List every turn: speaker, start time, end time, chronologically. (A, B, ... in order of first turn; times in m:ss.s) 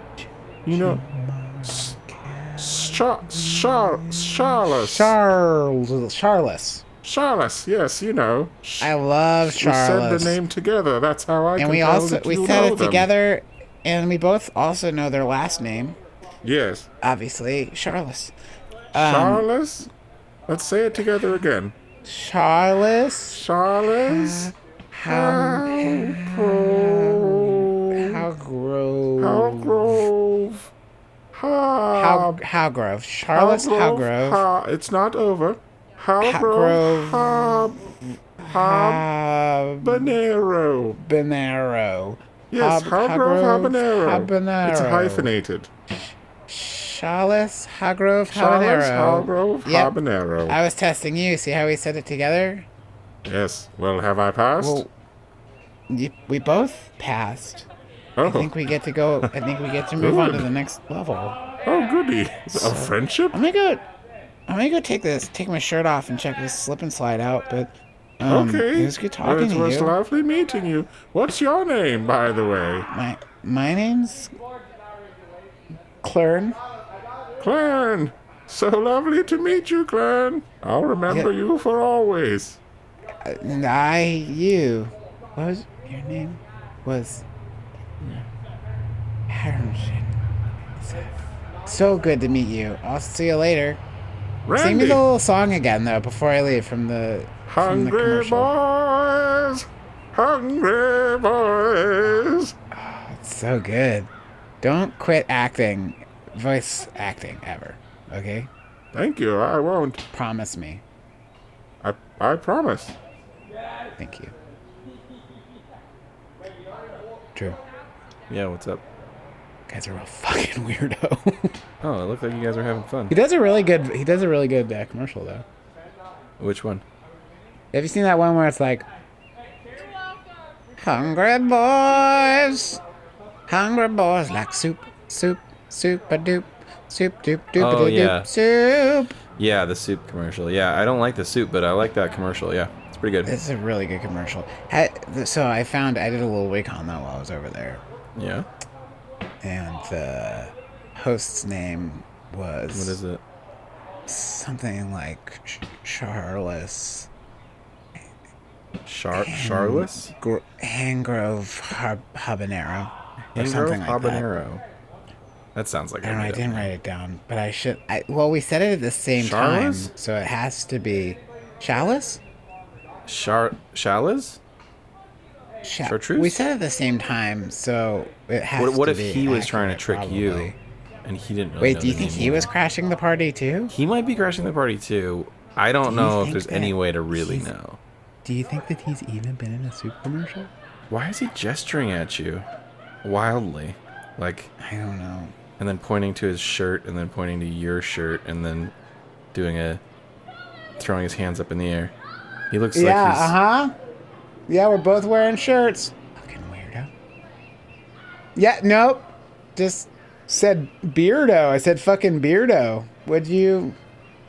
0:00.6-0:01.0 A
0:00.8-0:06.8 B
0:01.6-0:02.0 A
0:02.6-0:05.2 A
0:07.0-0:08.9 A
0:08.8-0:10.4 B
0:09.5-0:13.1 A
0:11.6-0:16.0 B
0:16.4-0:16.9 A
0:17.0-0:18.3 B
0:18.9-0:19.5 B
0:19.0-0:19.9 A
0:20.5-0:21.7 A
0:22.0-0:23.4 B
0:23.3-0:24.5 A
0:24.0-0:30.1 B
0:25.1-0:28.3 A
0:29.2-0:30.7 A
0:31.3-0:32.4 A
0:31.9-0:34.4 B
0:33.3-0:37.8 A
0:36.2-0:37.5 B
0:38.4-0:40.2 B
0:38.5-0:39.0 A
0:39.8-0:41.0 A
0:41.0-0:45.3 B
0:42.5-0:45.7 A
0:46.5-0:49.9 B
0:48.3-0:50.6 A
0:50.5-0:52.7 B
0:53.2-0:54.8 A
0:54.6-0:54.9 B
0:55.9-0:57.7 B
0:58.2-0:58.5 A
0:58.2-1:01.4 B
1:00.0-1:00.5 A
1:01.6-1:03.4 A
1:02.5-1:03.8 B
1:04.5-1:09.9 B
1:08.3-1:12.9 A
1:12.9-1:14.3 B
1:16.0-1:16.6 B
1:17.4-1:22.6 A
1:23.2-1:27.2 B
1:29.3-1:30.1 B
1:30.8-1:31.1 B
1:31.6-1:33.8 B
1:34.4-1:35.0 A
1:34.5-1:38.5 B
1:37.5-1:42.5 A
1:42.7-1:44.1 B
1:44.6-1:48.5 B
1:48.9-1:50.0 A
1:50.1-1:50.8 B
1:51.8-1:53.0 A
1:54.0-1:54.3 B
1:58.3-1:58.8 C
1:59.7-2:01.6 B
2:01.8-2:03.1 C
2:03.1-2:05.4 B
2:06.4-2:06.8 C
2:07.7-2:08.8 B
2:10.8-2:12.8 B
2:13.5-2:19.2 B
2:17.6-2:18.3 C
2:19.4-2:23.4 C
2:23.2-2:27.8 B
2:28.2-2:28.5 C
2:29.4-2:33.0 B
2:32.7-2:33.2 C
2:34.1-2:37.1 B
2:38.8-2:40.1 C
2:39.1-2:44.2 B
2:43.3-2:44.6 C
2:45.5-2:46.7 C
2:46.0-2:52.2 B
2:49.2-2:49.9 C
2:53.1-2:54.4 C
2:55.6-3:00.6 B
2:55.8-2:56.4 C
2:58.6-3:00.5 C
3:01.0-3:02.5 C
3:01.6-3:03.7 B
3:03.7-3:07.8 C
3:05.8-3:07.5 B
3:08.2-3:10.5 B
3:10.9-3:12.4 C
3:13.0-3:14.5 C
3:14.6-3:15.3 B
3:15.6-3:18.7 C
3:19.3-3:19.8 C
3:20.8-3:21.9 C
3:22.5-3:23.3 C
3:22.7-3:23.7 B
3:24.5-3:26.9 B
3:28.4-3:33.8 B